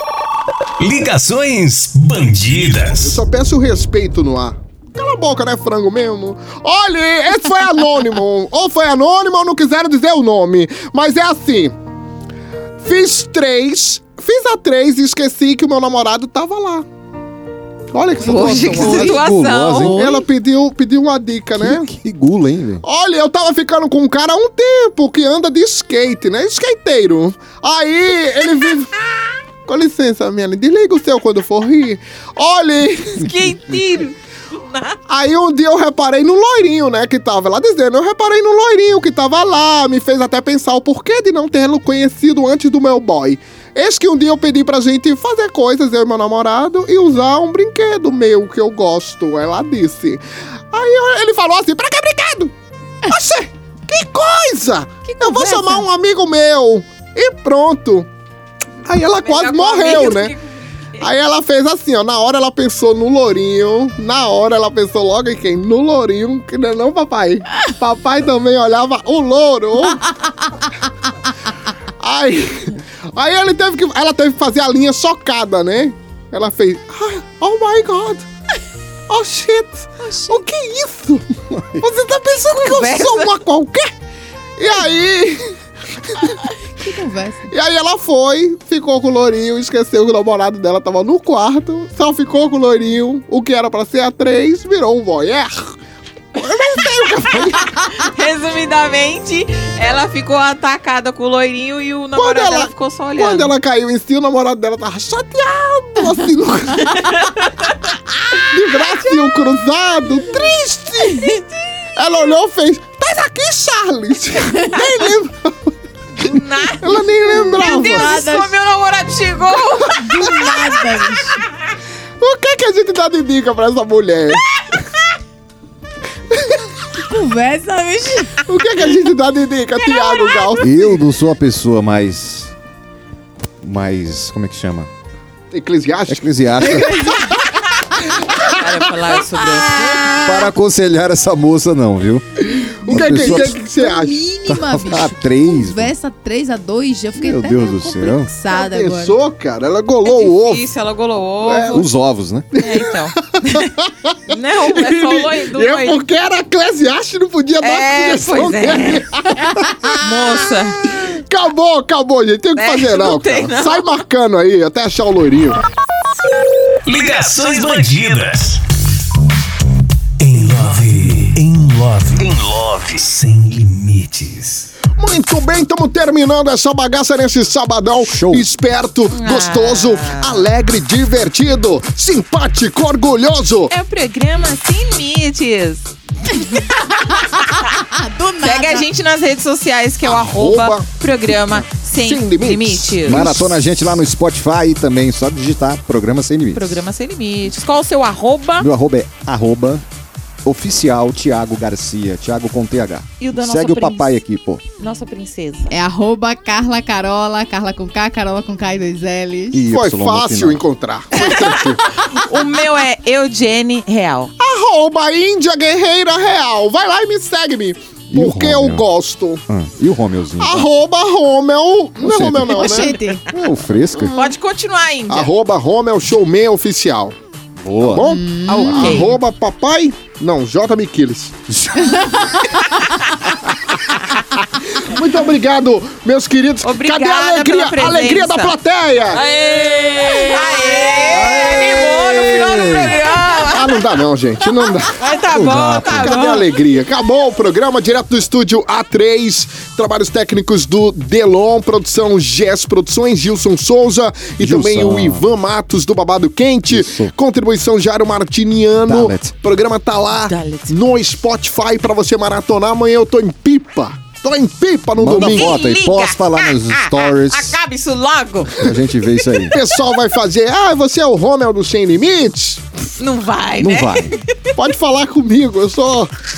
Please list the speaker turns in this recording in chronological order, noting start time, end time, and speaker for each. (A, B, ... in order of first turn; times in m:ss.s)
0:00.8-0:03.2 A
0:03.0-0:11.7 B
0:12.8-0:16.8 B
0:17.9-0:19.2 B
0:18.2-0:20.2 C
0:18.4-0:19.1 D
0:18.8-0:20.0 E
0:19.8-0:21.9 B
0:21.6-0:22.8 E
0:22.8-0:28.9 B
0:29.6-0:33.3 B
0:33.2-0:35.0 C
0:35.1-0:52.5 B
0:53.0-0:58.1 B
0:55.0-0:55.8 D
0:58.8-1:00.3 B
0:59.2-1:01.0 C
1:01.0-1:10.0 B
1:12.0-1:18.2 B
1:19.1-1:23.9 B
1:22.6-1:23.3 C
1:24.6-1:25.5 B
1:26.1-1:26.3 B
1:26.8-1:27.5 D
1:27.5-1:35.7 B
1:36.3-1:37.7 B
1:38.0-1:43.5 C
1:42.1-1:47.0 B
1:46.9-1:47.8 C
1:48.3-1:51.3 B
1:52.0-1:58.2 B
1:56.2-2:00.0 C
1:57.3-1:58.5 D
2:00.0-2:01.4 D
2:02.2-2:04.4 B
2:06.3-2:06.6 B
2:07.0-2:08.4 D
2:08.5-2:11.0 B
2:10.6-2:12.5 E
2:13.6-2:14.9 E
2:15.5-2:17.4 B
2:16.1-2:17.0 E
2:16.6-2:17.3 D
2:18.4-2:19.1 B
2:18.4-2:19.9 C
2:20.2-2:22.2 E
2:22.8-2:24.2 B
2:22.9-2:23.6 E
2:22.9-2:29.2 D
2:24.4-2:25.9 E
2:27.2-2:28.3 E
2:28.5-2:30.6 B
2:30.0-2:31.8 C
2:31.4-2:31.8 B
2:31.7-2:32.5 E
2:32.6-2:33.7 C
2:32.6-2:39.9 B
2:34.3-2:36.0 C
2:37.6-2:39.5 C
2:40.0-2:40.8 C
2:41.0-2:45.6 B
2:42.5-2:43.8 C
2:46.8-2:48.6 A
2:50.2-2:54.7 A
2:55.0-3:03.7 B
2:58.0-2:58.5 E
2:59.1-3:00.4 C
3:03.7-3:07.7 C
3:06.4-3:08.9 D
3:08.4-3:13.5 C
3:10.0-3:10.9 B
3:11.5-3:13.5 B
3:13.0-3:16.8 E
3:16.5-3:18.7 C
3:18.6-3:19.8 E
3:20.4-3:24.6 E
3:23.2-3:24.1 C
3:24.8-3:25.7 C
3:25.7-3:29.7 D
3:29.5-3:30.6 E
3:29.7-3:31.8 B
3:31.1-3:34.3 C
3:34.4-3:39.4 B
3:38.1-3:38.8 E
3:39.5-3:40.7 E
3:40.4-3:42.9 B
3:42.0-3:44.1 E
3:42.5-3:43.2 D
3:44.0-3:44.3 D
3:44.1-3:45.3 C
3:45.1-3:47.2 B
3:47.6-3:48.0 E
3:47.8-3:51.4 B
3:48.0-3:49.1 D
3:48.5-3:49.2 C
3:51.5-3:52.0 E
3:51.8-3:52.6 D
3:54.8-3:59.2 B
3:56.6-3:58.6 C
3:59.1-4:03.8 C
4:00.1-4:00.5 D
4:01.1-4:02.9 E
4:03.5-4:05.1 B
4:04.9-4:06.5 C
4:05.3-4:06.2 E
4:05.7-4:25.6 B
4:14.4-4:15.3 E
4:16.6-4:17.1 E
4:18.8-4:19.3 E
4:20.2-4:20.7 C
4:25.0-4:27.6 E
4:25.1-4:28.5 C
4:28.6-4:29.5 E
4:29.4-4:32.6 B
4:33.0-4:34.6 C
4:33.6-4:34.2 E
4:34.6-4:36.1 B